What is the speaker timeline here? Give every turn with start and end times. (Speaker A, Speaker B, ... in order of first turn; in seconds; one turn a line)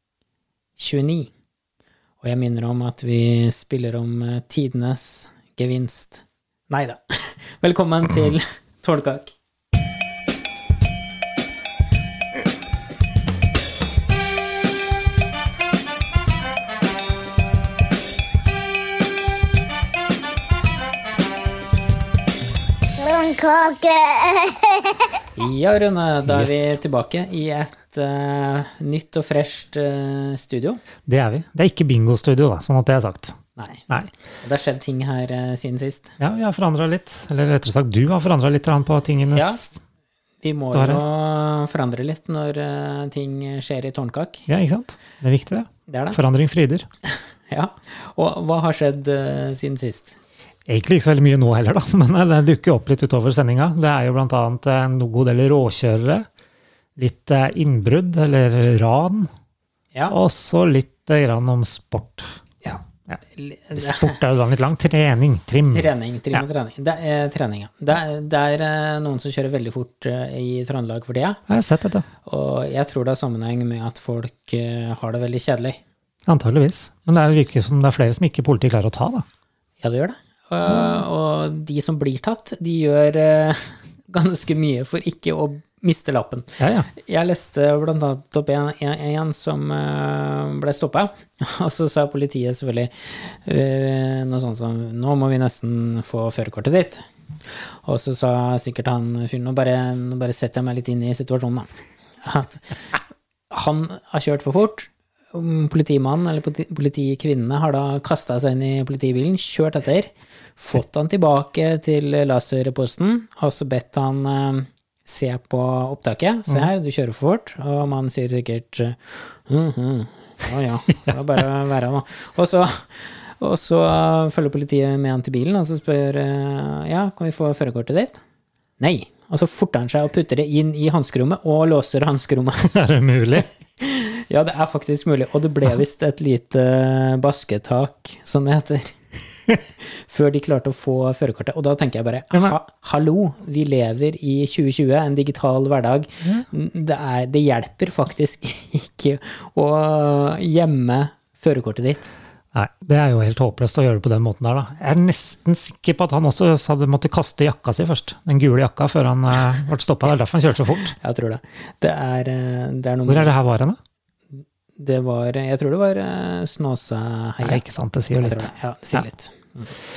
Speaker A: 0.8-1.3
Speaker A: 2.2-9.3
Speaker B: 23.0-25.1
Speaker A: 25.4-30.8
Speaker C: 26.3-26.8
Speaker C: 31.1-33.4
Speaker A: 33.6-36.1
Speaker C: 36.2-39.8
Speaker A: 39.3-39.6
Speaker A: 40.4-44.4
Speaker C: 40.7-41.0
Speaker C: 44.5-46.9
Speaker A: 45.9-46.2
Speaker A: 47.5-50.2
Speaker C: 50.7-56.2
Speaker C: 57.0-59.3
Speaker C: 60.1-62.3
Speaker A: 62.6-64.2
Speaker C: 63.7-66.4
Speaker A: 65.7-71.4
Speaker C: 71.5-72.0
Speaker A: 72.2-75.8
Speaker C: 76.3-79.2
Speaker A: 79.8-101.7
Speaker C: 80.7-81.0
Speaker C: 86.6-86.9
Speaker A: 102.2-103.0
Speaker A: 103.5-128.2
Speaker A: 128.8-132.7
Speaker C: 132.6-133.5
Speaker A: 133.8-139.0
Speaker A: 139.8-152.1
Speaker C: 152.5-161.0
Speaker A: 161.0-163.3
Speaker C: 163.1-163.8
Speaker A: 164.8-167.6
Speaker C: 167.4-169.0
Speaker A: 168.1-169.7